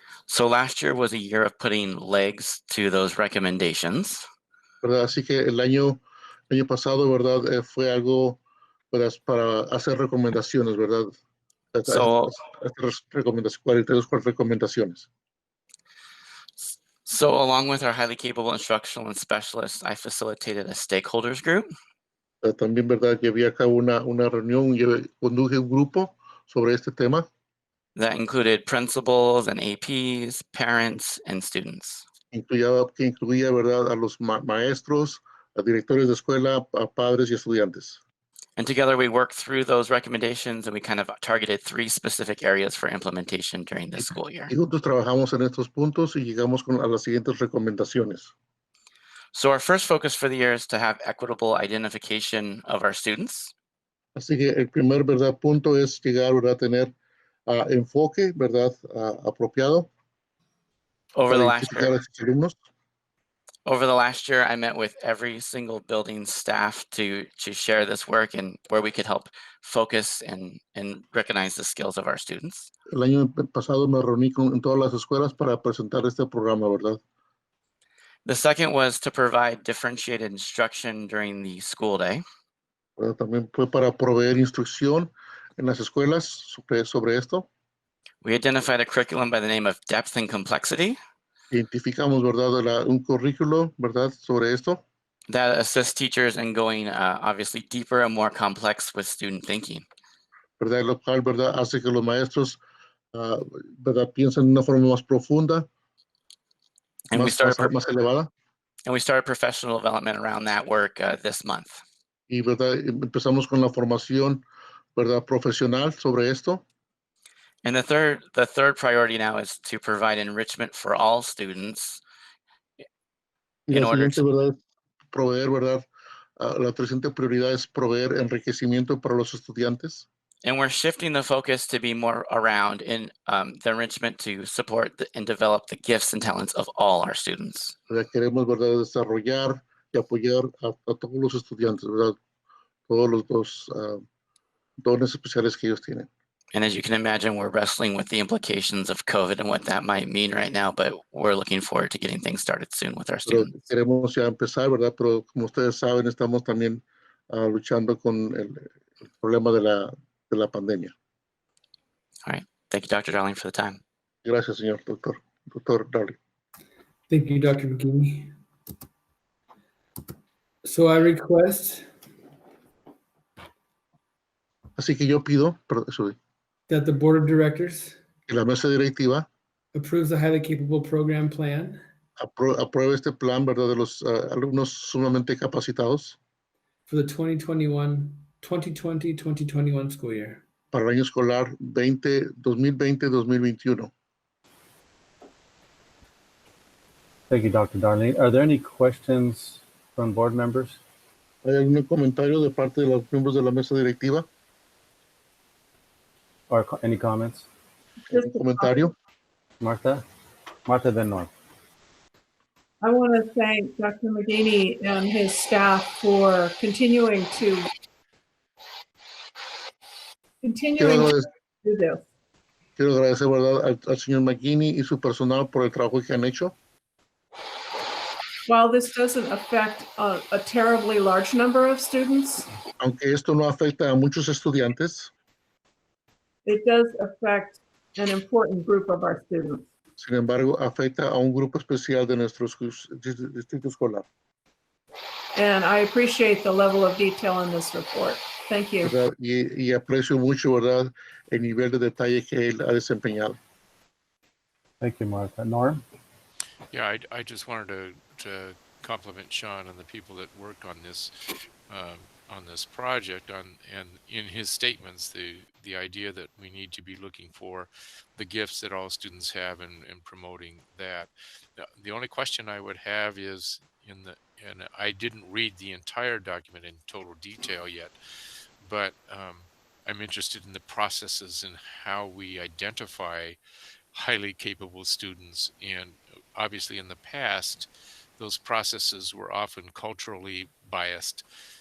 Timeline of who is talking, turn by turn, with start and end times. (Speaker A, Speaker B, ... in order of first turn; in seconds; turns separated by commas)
Speaker A: 0.3-4.2, Speaker B: 4.8-8.4, Speaker B: 8.9-11.2, Speaker B: 11.7-15.1, Speaker A: 11.9-12.3, Speaker A: 16.6-21.7, Speaker B: 22.4-27.2, Speaker A: 27.9-32.0, Speaker B: 32.3-38.0, Speaker A: 38.6-44.5, Speaker B: 44.0-48.3, Speaker A: 49.3-53.5, Speaker B: 54.1-56.9, Speaker B: 57.5-59.9, Speaker A: 61.1-61.9, Speaker B: 61.3-62.5, Speaker A: 63.6-72.7, Speaker B: 72.9-77.0, Speaker A: 78.2-82.2, Speaker B: 83.0-87.5, Speaker A: 88.2-91.0, Speaker B: 91.5-94.8, Speaker A: 95.3-99.8, Speaker B: 100.6-102.6, Speaker B: 103.1-105.7, Speaker A: 107.1-107.7, Speaker B: 107.1-108.3, Speaker A: 108.8-111.8, Speaker B: 112.3-114.4, Speaker B: 115.0-116.6, Speaker A: 117.6-122.0, Speaker B: 123.7-124.6, Speaker A: 123.7-124.2, Speaker B: 125.1-125.8, Speaker B: 126.4-130.1, Speaker A: 130.4-137.7, Speaker B: 137.9-142.2, Speaker B: 142.9-144.0, Speaker B: 144.8-146.1, Speaker A: 146.5-153.5, Speaker B: 153.2-160.9, Speaker A: 162.2-163.8, Speaker B: 164.2-166.2, Speaker C: 167.1-168.3, Speaker C: 170.6-171.9, Speaker B: 174.8-176.2, Speaker C: 176.7-178.0, Speaker B: 178.3-179.3, Speaker C: 179.7-181.8, Speaker B: 182.2-186.2, Speaker C: 186.9-190.4, Speaker B: 190.7-193.9, Speaker D: 197.3-200.8, Speaker B: 201.4-204.2, Speaker D: 206.5-207.5, Speaker E: 208.1-208.9, Speaker B: 208.1-208.9, Speaker D: 209.6-210.0, Speaker D: 210.7-211.3, Speaker E: 212.8-217.7, Speaker E: 220.4-222.0, Speaker B: 220.8-221.2, Speaker B: 222.8-226.5, Speaker E: 228.5-232.5, Speaker B: 232.8-235.1, Speaker E: 236.4-239.6, Speaker B: 240.0-244.0, Speaker E: 245.3-248.9, Speaker B: 248.8-253.4, Speaker D: 254.8-255.8, Speaker F: 256.7-261.1, Speaker F: 261.7-277.9, Speaker F: 278.6-283.4, Speaker F: 283.9-291.2